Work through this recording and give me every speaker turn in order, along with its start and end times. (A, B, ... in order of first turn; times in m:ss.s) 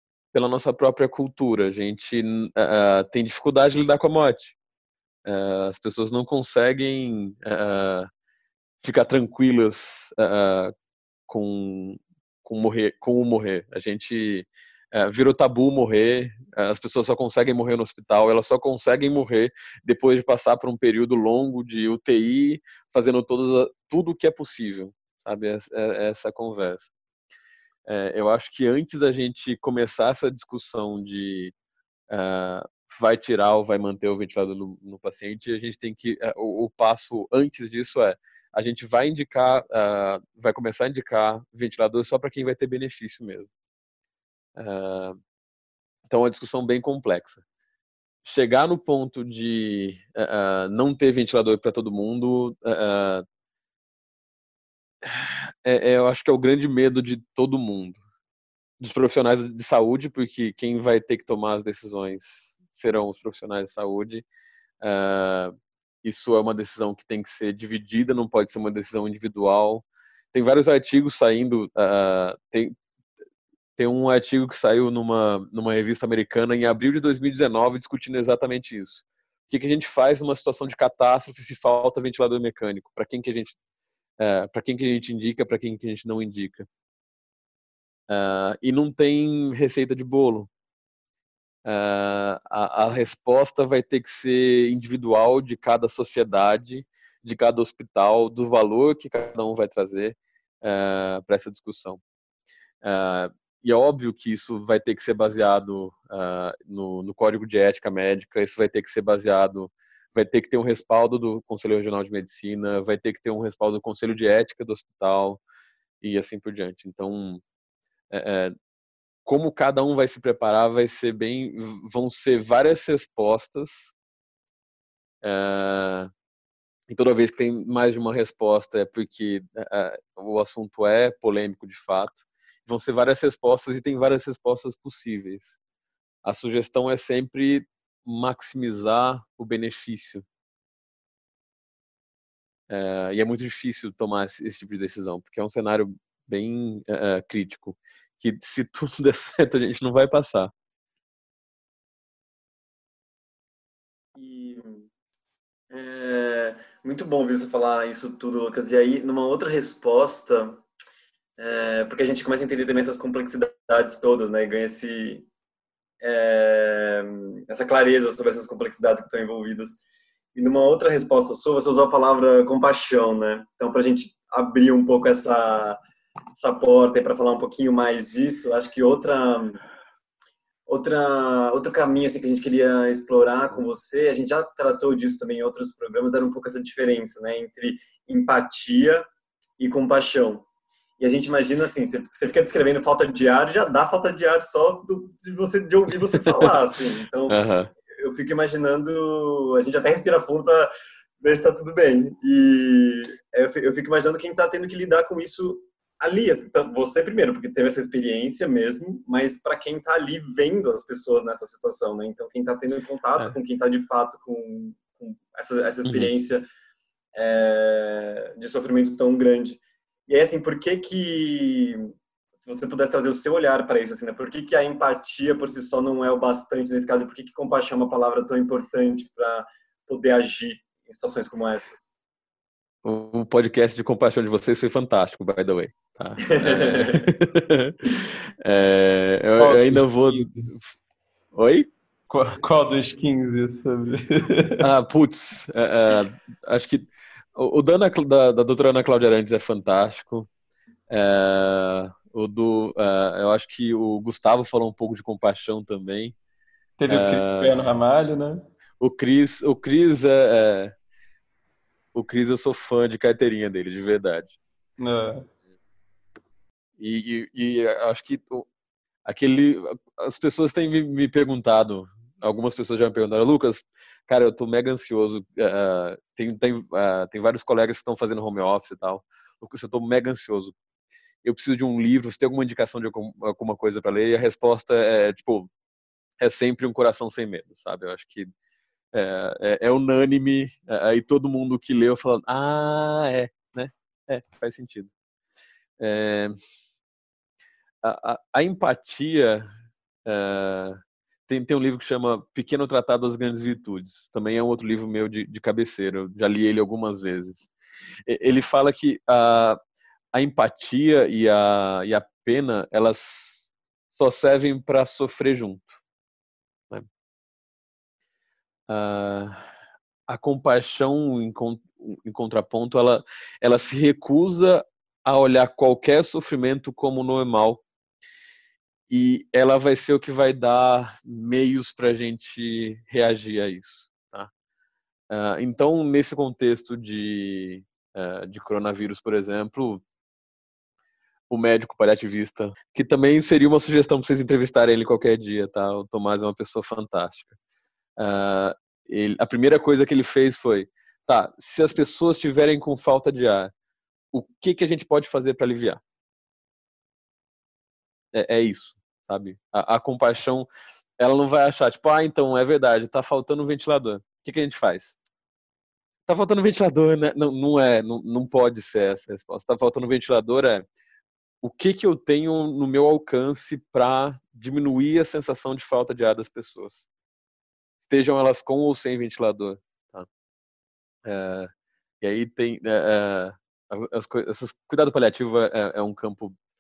0:00.3-0:04.6 A
0:05.3-0:08.1 A
0:08.8-0:10.7 A
0:11.3-0:26.9 A
0:27.9-0:31.5 A
0:32.1-0:43.5 A
0:44.6-0:45.2 A
0:46.1-0:47.4 A
0:48.2-0:53.2 A
0:55.0-0:58.0 A
0:58.8-1:04.2 A
1:04.8-1:12.7 A
1:13.8-1:23.6 A
1:24.2-1:26.7 A
1:28.1-1:30.5 A
1:31.6-1:42.0 A
1:42.8-1:55.4 A
1:56.0-1:57.4 A
1:58.1-1:58.6 A
1:59.3-2:03.9 A
2:05.2-2:06.1 A
2:06.9-2:15.6 A
2:16.2-2:20.2 A
2:22.7-2:30.5 A
2:34.1-2:34.9 B
2:35.7-2:40.6 B
2:41.4-2:45.3 B
2:46.0-2:49.8 B
2:50.3-2:55.8 B
2:56.3-2:59.6 B
3:00.7-3:09.1 B
3:09.6-3:10.4 B
3:11.0-3:17.4 B
3:17.3-3:17.7 A
3:17.9-3:20.7 B
3:21.2-3:36.5 B
3:37.1-3:51.9 B
3:52.8-4:00.7 A
3:56.3-3:57.1 B
3:59.4-4:00.5 C
4:01.3-4:01.7 A
4:02.1-4:04.7 C
4:04.6-4:10.3 A
4:10.9-4:16.1 A
4:16.8-4:18.5 C
4:16.9-4:17.6 A
4:18.8-4:20.7 A
4:21.9-4:24.4 A
4:24.8-4:25.3 C
4:26.8-4:28.5 A
4:29.0-4:40.5 A
4:41.2-4:45.5 A
4:46.2-4:48.3 A
4:48.9-4:54.9 A
4:55.8-4:56.4 A
4:57.8-4:59.5 A
5:00.0-5:07.5 A
5:08.1-5:09.6 A
5:10.1-5:15.8 A
5:18.7-5:19.4 A
5:20.1-5:27.6 A
5:28.9-5:34.3 A
5:35.1-5:39.8 A
5:41.3-5:47.3 A
5:48.0-5:53.5 A
5:54.1-5:55.8 A
5:58.1-6:00.5 A
6:01.0-6:05.0 A
6:06.1-6:10.7 A
6:11.4-6:16.8 A
6:17.8-6:20.1 A
6:21.0-6:26.3 A